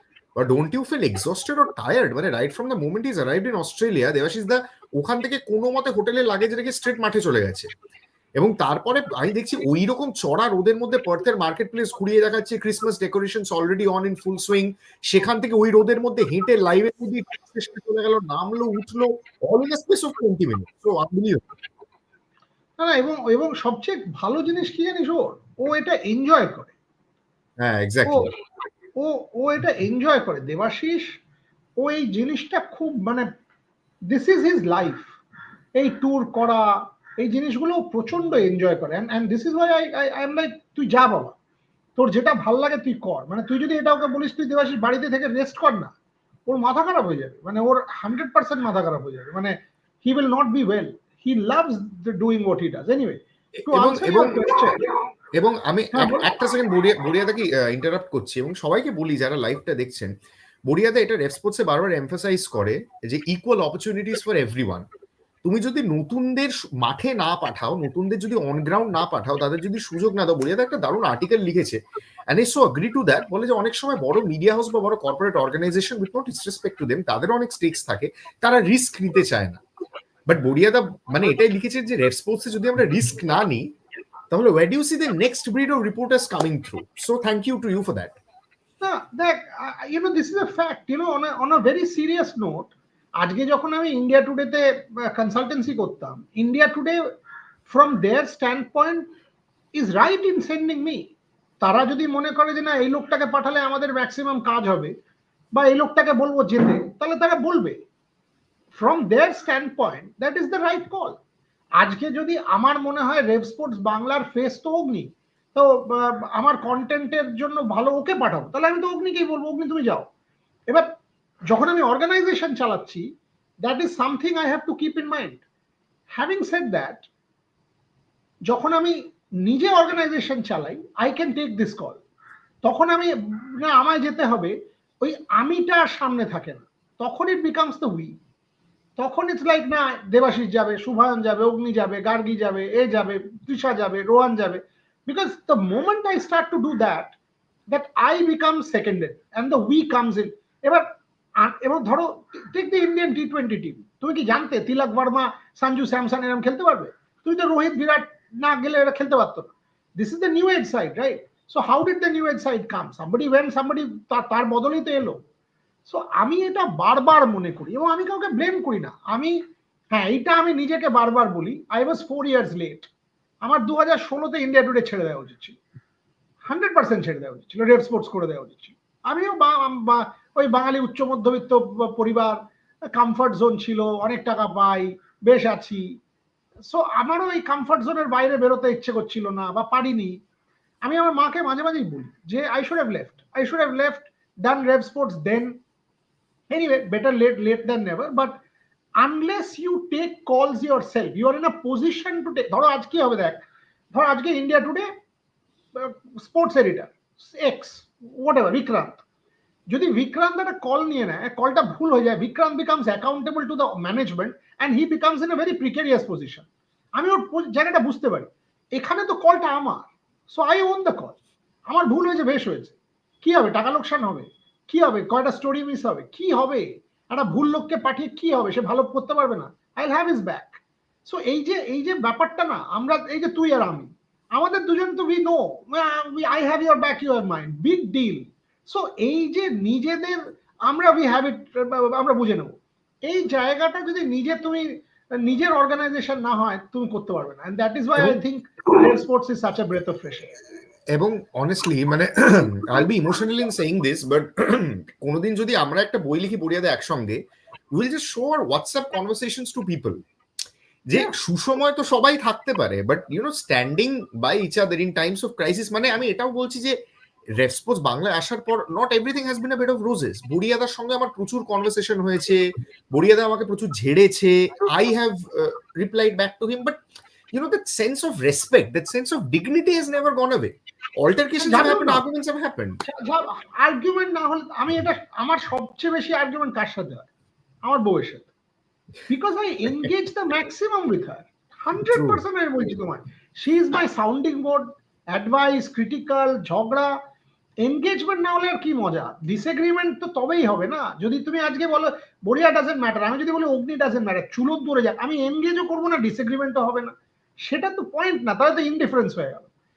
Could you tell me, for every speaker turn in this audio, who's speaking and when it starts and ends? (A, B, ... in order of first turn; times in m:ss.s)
0:00.4-0:07.7 A
0:08.4-0:21.4 A
0:22.8-0:26.7 B
0:27.6-0:28.3 A
0:28.1-0:28.3 B
0:29.0-0:31.2 B
0:31.8-0:33.3 B
0:34.1-0:35.1 B
0:35.8-0:41.4 B
0:42.0-0:45.9 B
0:46.5-0:54.8 B
0:53.6-0:54.4 A
0:55.4-1:00.1 A
0:55.9-0:56.3 B
1:00.7-1:04.9 A
1:05.4-1:19.6 A
1:20.3-1:23.7 A
1:24.3-1:28.2 A
1:28.8-1:37.1 B
1:37.7-1:39.1 B
1:39.7-1:41.1 B
1:41.6-1:45.0 B
1:45.5-1:47.8 B
1:48.7-1:51.2 B
1:51.8-2:00.1 B
2:01.5-2:03.1 B
2:03.6-2:05.4 B
2:06.1-2:07.1 B
2:08.5-2:12.0 B
2:12.6-2:18.2 B
2:19.0-2:27.2 B
2:27.7-2:45.2 B
2:45.8-2:49.4 B
2:49.9-2:52.9 B
2:53.4-2:55.6 B
2:56.5-3:06.0 B
3:06.6-3:10.2 B
3:10.8-3:15.6 B
3:16.5-3:18.4 B
3:19.0-3:24.9 B
3:25.7-3:29.0 B
3:29.7-3:41.2 B
3:41.7-4:02.5 B
4:03.0-4:10.3 B
4:10.9-4:17.2 A
4:17.7-4:20.0 A
4:20.9-4:26.8 A
4:27.4-4:32.4 A
4:32.9-4:36.8 A
4:37.3-4:42.8 A
4:41.4-4:42.0 B
4:42.8-4:47.1 B
4:47.6-4:48.3 B
4:49.1-4:57.0 B
4:51.9-4:52.2 A
4:57.6-5:09.5 B